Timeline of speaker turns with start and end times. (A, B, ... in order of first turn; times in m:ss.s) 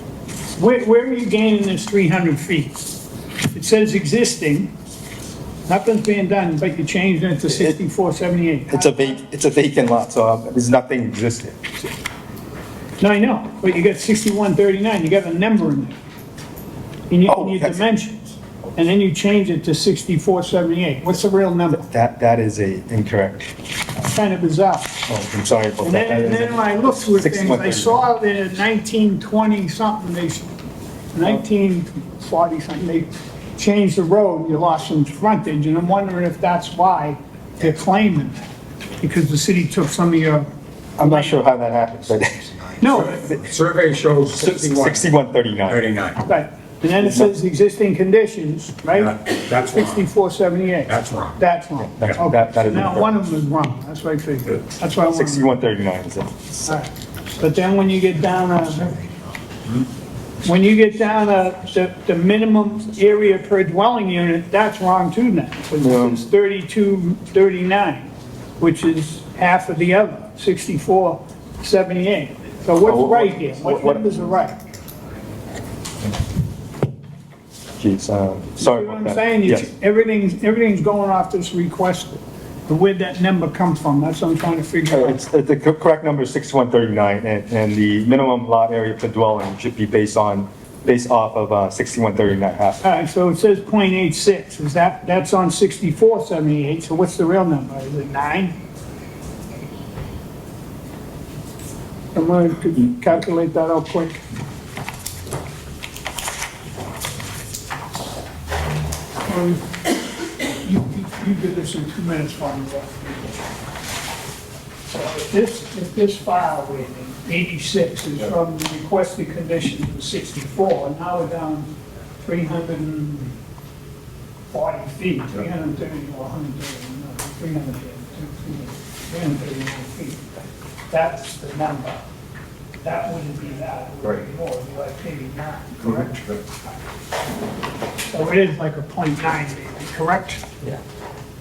0:00.6-0:02.9 A
0:03.5-0:04.7 A
0:05.7-0:08.8 A
0:07.5-0:07.8 B
0:08.7-0:11.8 B
0:13.0-0:16.0 A
0:17.1-0:21.8 A
0:17.2-0:17.9 B
0:21.7-0:23.5 B
0:24.0-0:25.0 A
0:25.1-0:28.0 B
0:25.8-0:30.5 A
0:31.1-0:38.4 A
0:39.0-0:40.5 A
0:41.0-0:42.5 B
0:41.0-0:41.3 A
0:42.8-0:43.3 A
0:42.9-0:45.1 C
0:44.4-0:45.8 B
0:45.6-0:46.2 C
0:46.2-0:55.6 A
0:48.9-0:50.0 C
0:50.9-0:51.4 C
0:52.0-0:53.1 B
0:55.1-0:56.8 B
0:56.6-0:59.0 A
1:00.4-1:08.1 A
1:05.8-1:06.2 B
1:08.6-1:14.6 A
1:12.8-1:14.0 B
1:17.8-1:19.7 B
1:18.6-1:25.2 A
1:24.9-1:32.8 B
1:32.8-1:38.5 A
1:42.1-1:44.2 A
1:49.2-1:49.9 A
1:50.6-1:53.3 A
1:54.9-2:01.7 A
2:02.2-2:03.3 A
2:04.5-2:10.2 A
2:10.9-2:12.0 A
2:12.8-2:16.2 A
2:18.1-2:20.4 A